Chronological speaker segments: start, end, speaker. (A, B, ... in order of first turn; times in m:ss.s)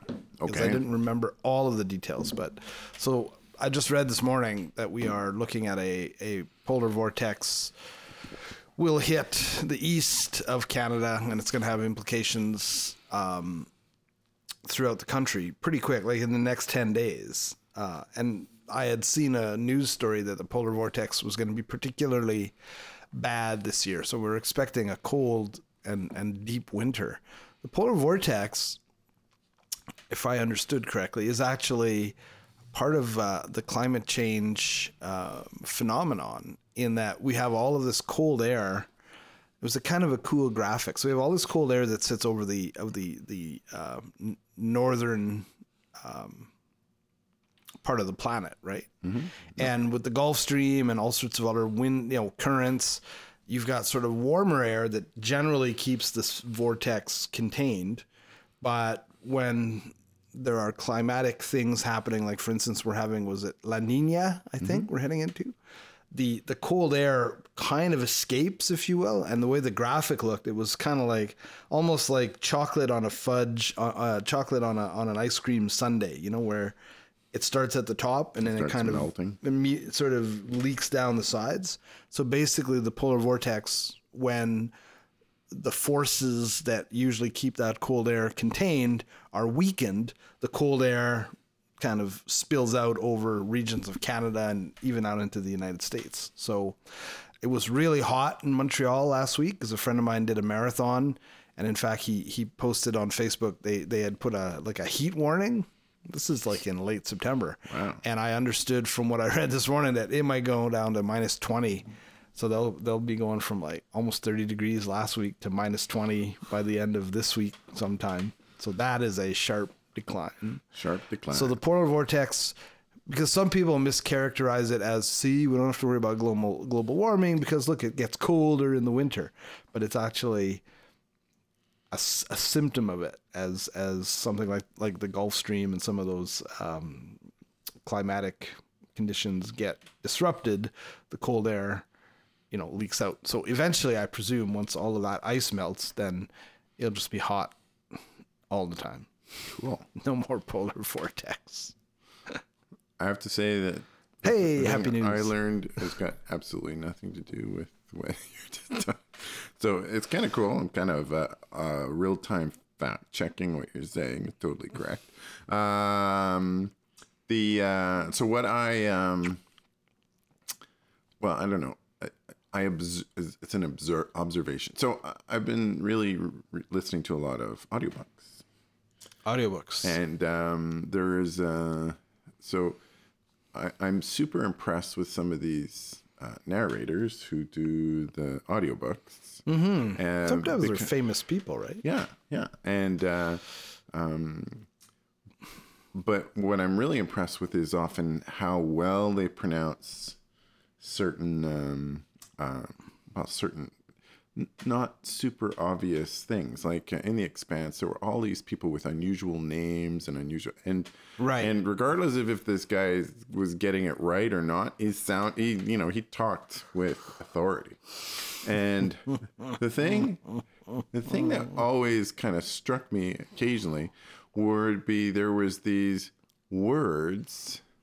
0:00.4-0:00.8 A
0:00.4-0:07.7 B
0:08.8-0:13.7 B
0:14.6-0:22.5 B
0:23.1-0:28.8 B
0:30.1-0:32.2 B
0:32.7-0:38.9 B
0:39.6-0:45.5 B
0:46.0-0:46.5 B
0:47.8-0:48.9 B
0:49.0-0:49.7 A
0:49.5-0:58.0 B
0:58.6-1:05.5 B
1:06.1-1:16.8 B
1:17.3-1:24.7 B
1:18.4-1:19.4 A
1:25.5-1:36.8 B
1:37.4-2:00.6 B
1:47.7-1:48.0 A
2:00.7-2:01.6 A
2:01.3-2:02.5 B
2:03.1-2:10.6 B
2:11.9-2:17.2 B
2:17.8-2:21.8 B
2:22.5-2:27.6 B
2:28.5-2:29.1 B
2:29.5-2:29.9 A
2:30.0-2:31.7 B
2:33.0-2:46.7 A
2:34.2-2:35.3 B
2:47.3-2:49.4 A
2:51.2-2:58.4 A
2:59.2-3:00.0 B
2:59.8-3:02.8 A
3:03.5-3:10.9 A
3:09.4-3:11.8 B
3:11.8-3:14.6 A
3:15.9-3:20.2 A
3:20.8-3:23.8 A
3:24.3-3:40.4 A
3:31.2-3:31.5 B
3:40.9-3:47.6 A